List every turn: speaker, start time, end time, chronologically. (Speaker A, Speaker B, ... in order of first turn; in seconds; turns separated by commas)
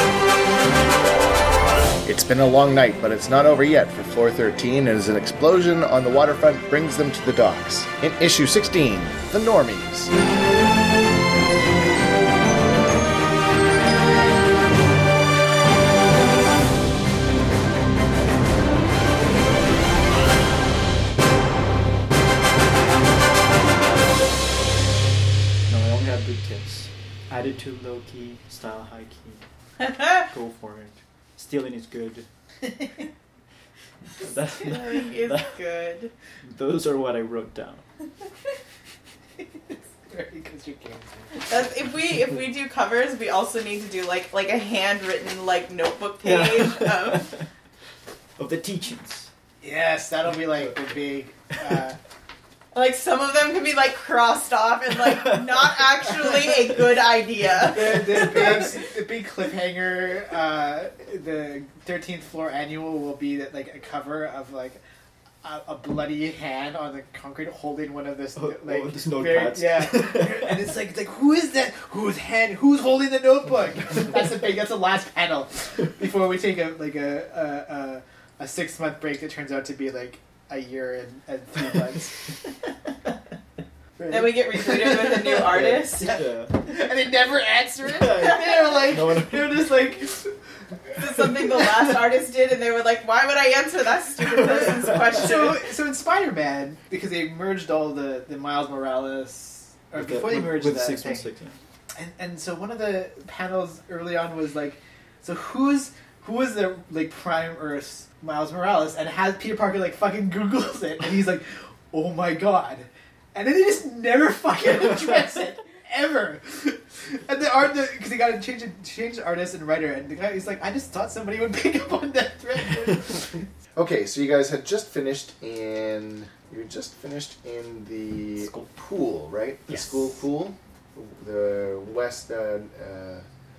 Speaker A: 2.0-10.1, Speaker B: 25.7-29.4, Speaker B: 30.0-32.3, Speaker B: 34.2-35.5, Speaker C: 34.6-36.1, Speaker B: 36.4-37.8, Speaker D: 39.4-41.5, Speaker C: 41.5-47.4, Speaker B: 46.2-47.5, Speaker B: 48.4-49.3, Speaker D: 49.6-52.0, Speaker C: 52.7-58.7, Speaker B: 55.1-56.5, Speaker D: 57.6-64.8, Speaker D: 65.4-82.2, Speaker B: 68.3-70.6, Speaker D: 84.0-90.3, Speaker C: 84.1-86.2, Speaker B: 84.9-86.7, Speaker B: 88.0-89.8, Speaker C: 90.9-95.6, Speaker D: 94.8-101.2, Speaker B: 100.0-101.6, Speaker D: 102.0-123.5, Speaker A: 123.8-133.2, Speaker B: 128.4-128.7, Speaker B: 129.7-130.1